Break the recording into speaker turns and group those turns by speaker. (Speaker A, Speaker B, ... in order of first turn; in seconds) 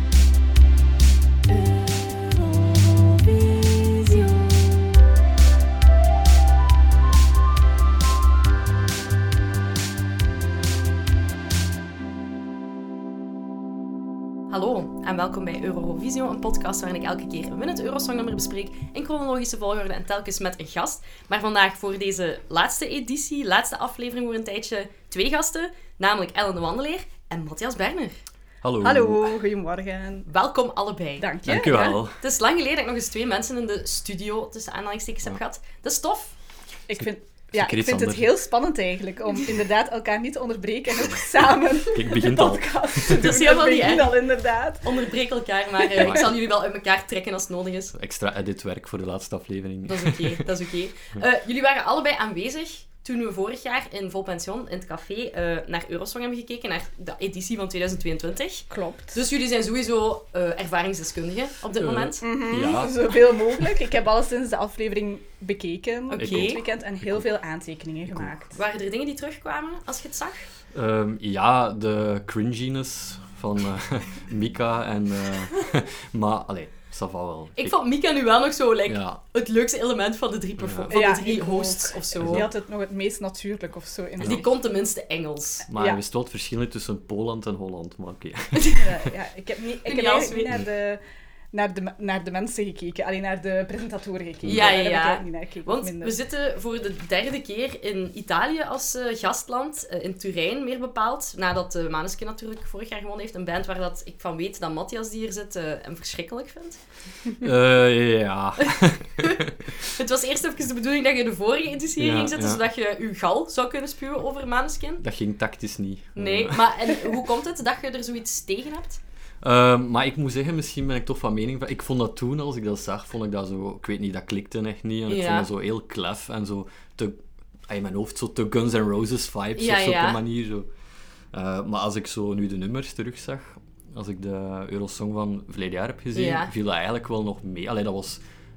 Speaker A: 3.6-4.4, 28.8-30.3, 31.2-32.0, 36.9-45.0, 58.7-59.2, 62.2-68.6, 80.9-84.5, 85.7-86.0, 88.8-91.0, 91.5-96.2
Speaker B: 14.5-28.2, 30.3-36.4, 43.1-44.3, 44.8-47.9, 49.9-62.3, 66.1-66.7, 68.5-70.5, 77.6-82.5, 84.2-85.7, 88.6-88.8, 89.8-90.6, 94.5-107.5, 109.2-115.0, 116.2-119.0, 125.1-125.5, 129.6-130.2, 136.1-136.5
Speaker C: 28.6-29.3, 31.4-32.2, 36.9-38.3, 41.8-43.3, 46.0-46.3, 48.0-50.5, 61.8-63.1, 66.2-67.2, 70.7-77.8, 78.9-79.2, 80.6-81.0, 82.2-82.5, 85.7-88.8, 94.4-94.8, 107.4-109.8, 112.0-112.6, 115.0-116.7, 119.4-130.7, 131.3-138.2